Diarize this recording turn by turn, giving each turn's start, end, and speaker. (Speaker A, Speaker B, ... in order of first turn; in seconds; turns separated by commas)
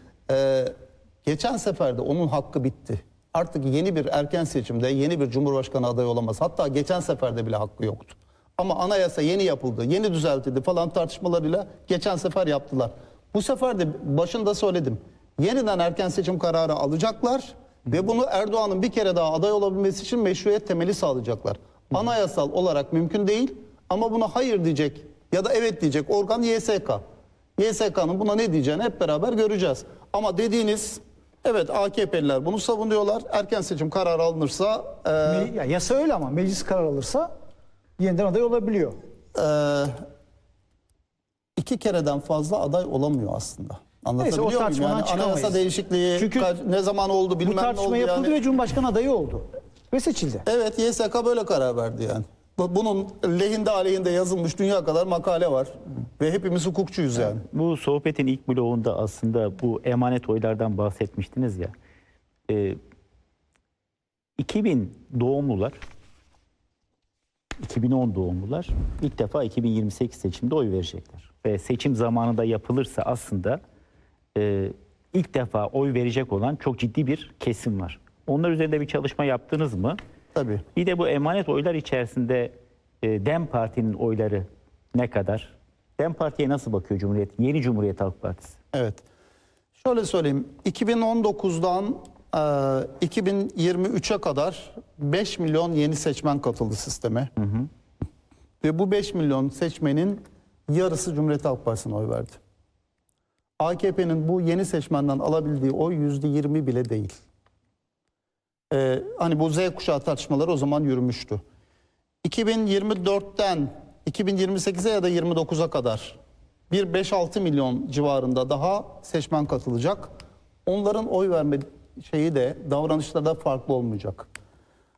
Speaker A: 0.3-27.0, Speaker A: 27.6-35.5, Speaker B: 35.2-37.3, Speaker B: 38.0-39.0, Speaker A: 39.3-40.0, Speaker A: 41.6-48.4, Speaker B: 44.2-45.6, Speaker B: 46.1-46.5, Speaker B: 47.4-50.5, Speaker A: 50.5-57.5, Speaker C: 57.5-61.7, Speaker C: 62.5-62.8, Speaker C: 64.4-65.8, Speaker C: 67.6-73.6, Speaker C: 74.3-80.0, Speaker A: 80.3-80.6, Speaker C: 80.7-88.5, Speaker A: 88.7-89.0, Speaker A: 89.8-97.3, Speaker A: 98.6-102.4, Speaker A: 103.6-107.1, Speaker A: 108.7-111.4, Speaker A: 112.2-116.2, Speaker A: 116.7-120.1, Speaker A: 120.6-124.3